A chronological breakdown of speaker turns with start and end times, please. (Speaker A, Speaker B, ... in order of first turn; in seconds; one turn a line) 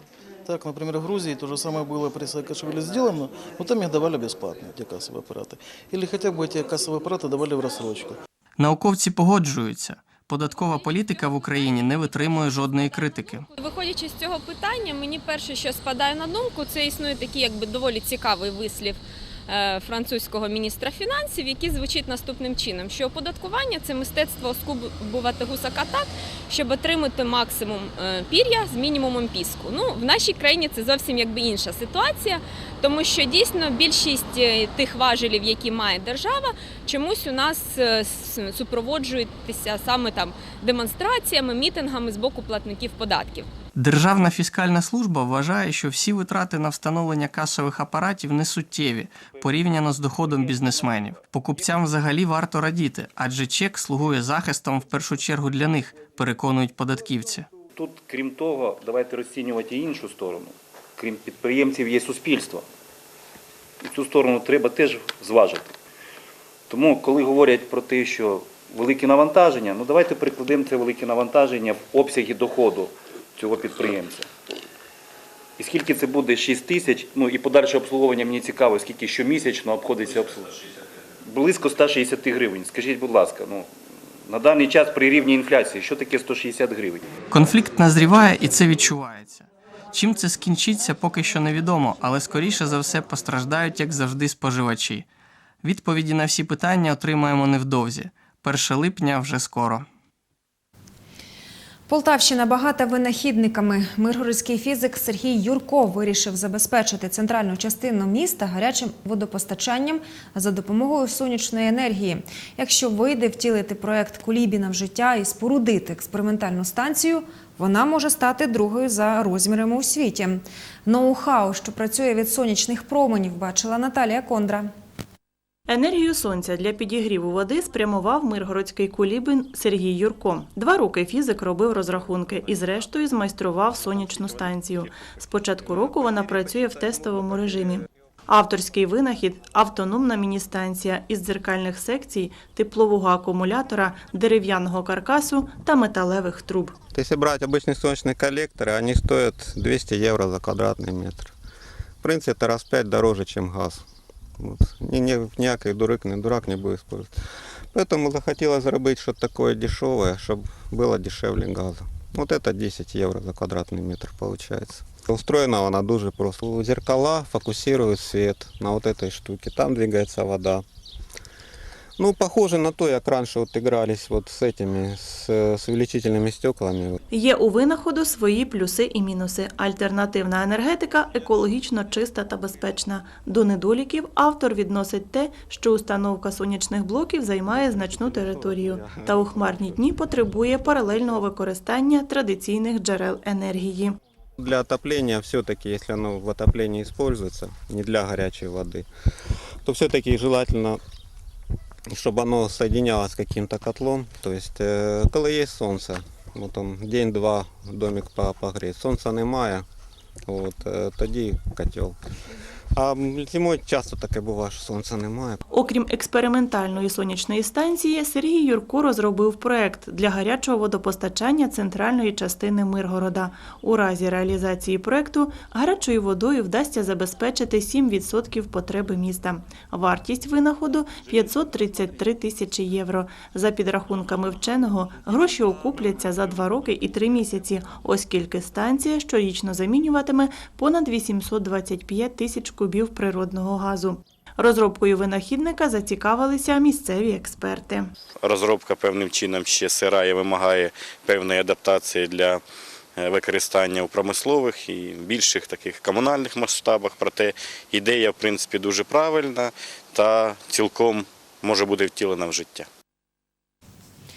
Speaker A: 0.5-8.1
Speaker B: 8.6-13.4
Speaker C: 13.5-43.5
Speaker B: 43.8-57.5
Speaker D: 57.7-62.7
Speaker D: 63.8-65.7
Speaker D: 66.7-74.3
Speaker D: 75.6-80.6
Speaker D: 81.3-83.7
Speaker D: 84.3-87.1
Speaker B: 87.3-95.1
Speaker B: 95.6-99.9
Speaker E: 101.9-124.7
Speaker F: 125.7-146.8
Speaker G: 146.9-151.3
Speaker G: 152.0-153.8
Speaker G: 154.4-157.1
Speaker G: 157.7-170.7
Speaker G: 172.0-177.0
Speaker F: 177.1-194.0
Speaker G: 188.7-189.0
Speaker G: 194.4-198.9
Speaker G: 199.6-200.8
Speaker G: 201.9-209.7
Speaker G: 210.3-212.0
Speaker G: 212.7-215.4
Speaker F: 215.5-247.9
Speaker H: 248.2-252.4
Speaker H: 253.0-262.7